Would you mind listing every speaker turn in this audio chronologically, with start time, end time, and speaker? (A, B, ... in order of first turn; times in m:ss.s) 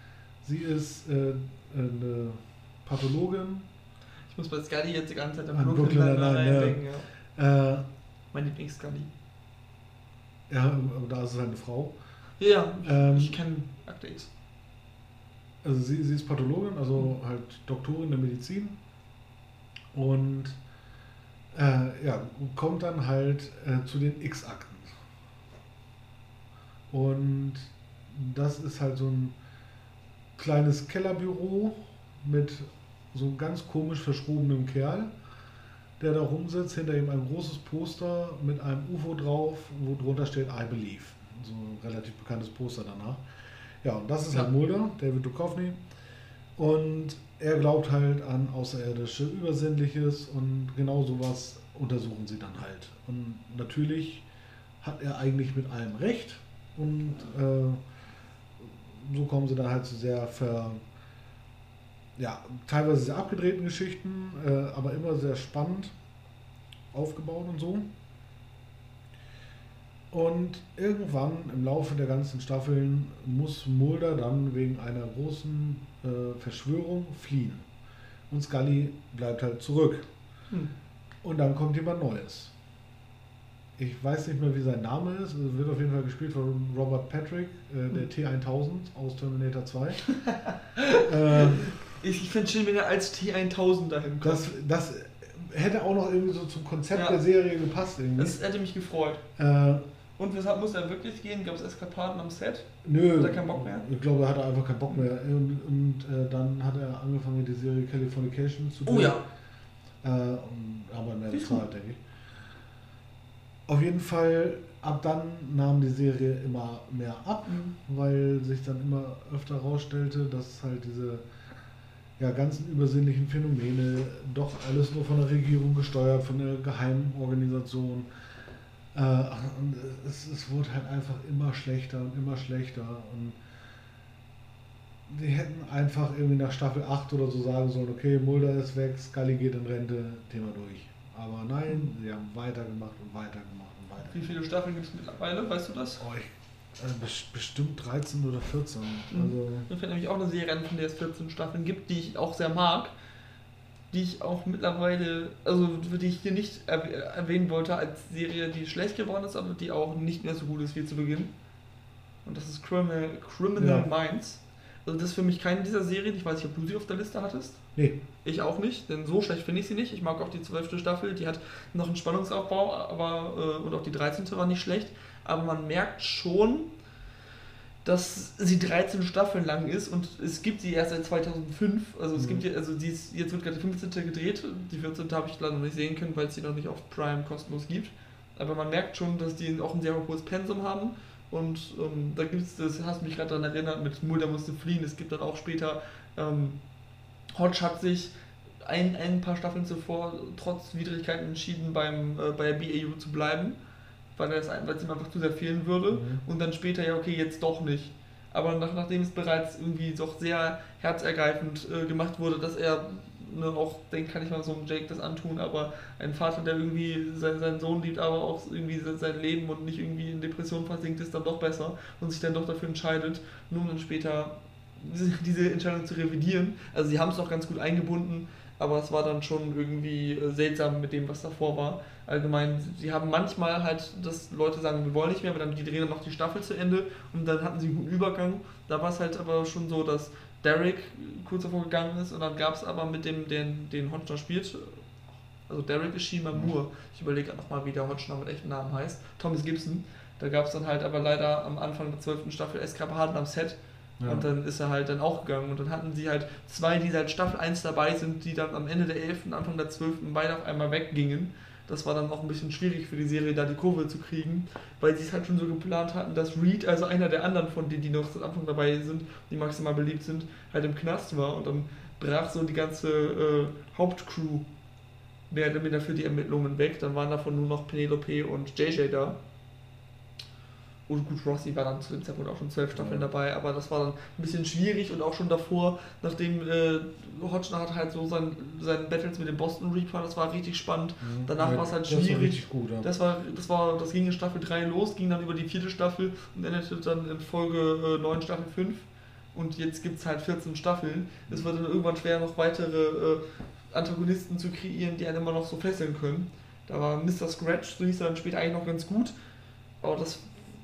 0:00.4-0:03.7 A
0:04.3-0:07.1 B
0:05.5-0:06.8 A
0:07.4-0:07.8 A
0:08.3-0:09.1 B
0:10.5-0:12.0 A
0:12.4-0:14.3 B
0:12.8-0:13.4 A
0:15.6-0:18.8 A
0:19.9-0:20.6 A
0:21.5-0:24.9 A
0:26.9-0:29.4 A
0:30.4-0:35.1 A
0:36.0-0:43.2 A
0:43.8-0:45.8 A
0:46.6-0:54.3 A
0:54.8-0:57.8 A
0:58.6-1:00.8 A
1:02.2-1:05.9 A
1:06.9-1:07.9 A
1:10.1-1:17.7 A
1:18.3-1:20.1 A
1:21.2-1:22.5 A
1:23.8-1:30.0 A
1:30.1-1:34.4 B
1:31.0-1:31.7 A
1:34.2-1:38.4 A
1:36.9-1:37.2 B
1:38.2-1:39.2 B
1:39.4-1:39.8 A
1:40.2-1:43.9 B
1:42.8-1:49.2 A
1:48.9-1:49.2 B
1:50.0-1:52.0 A
1:51.3-1:51.6 B
1:53.7-2:01.3 A
1:57.5-1:57.7 B
2:02.2-2:08.1 A
2:08.9-2:13.4 A
2:15.1-2:24.4 A
2:24.1-2:26.0 B
2:26.0-2:29.7 A
2:29.1-2:32.9 B
2:33.9-2:41.3 B
2:42.2-2:47.6 B
2:43.6-2:43.9 A
2:48.2-2:56.7 B
2:57.8-3:16.6 B
3:02.2-3:02.4 A
3:17.3-3:23.6 B
3:24.2-4:04.8 B
3:25.9-3:26.2 A
4:05.5-4:34.4 B
4:14.0-4:14.3 A
4:35.3-4:39.2 B
4:40.9-5:09.1 B
4:42.7-4:43.1 A
4:51.0-4:52.9 A
5:09.8-5:10.4 B